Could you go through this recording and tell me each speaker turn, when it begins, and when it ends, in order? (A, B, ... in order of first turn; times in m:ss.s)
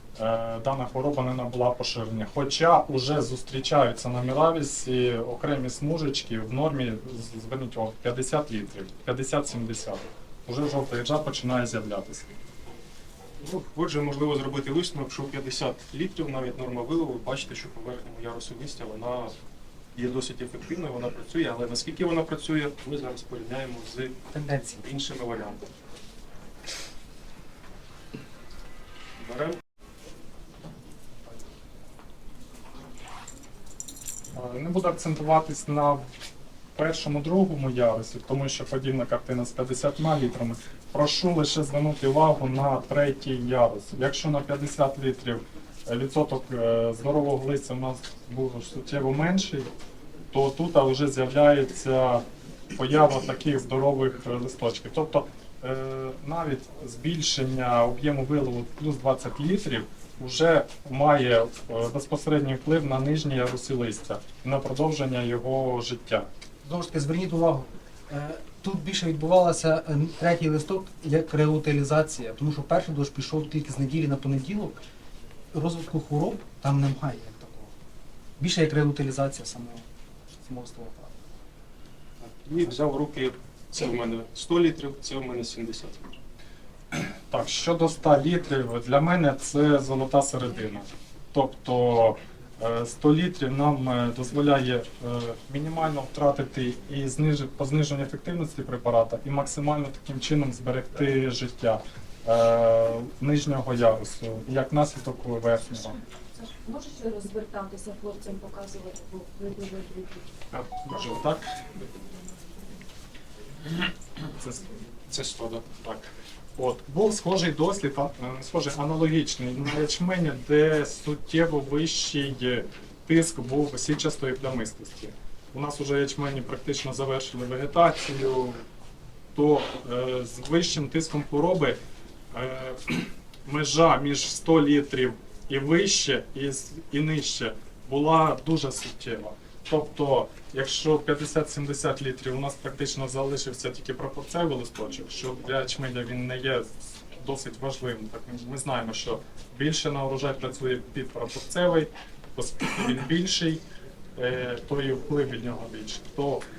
0:00.2-0:12.3 A
0:13.4-0:19.4 B
0:20.0-0:24.2 B
0:24.3-0:24.8 C
0:24.8-0:25.7 B
0:29.2-0:29.6 B
0:34.3-0:36.0 A
0:36.8-0:49.7 A
0:50.3-1:06.3 A
1:06.6-1:14.8 C
1:15.5-1:17.7 C
1:18.4-1:19.8 C
1:20.4-1:21.2 C
1:22.2-1:26.2 B
1:26.9-1:46.0 A
1:46.4-1:50.3 D
1:50.5-1:51.9 A
1:54.4-2:08.6 A
2:09.3-2:11.8 A
2:12.3-2:33.6 A
2:34.2-2:36.4 A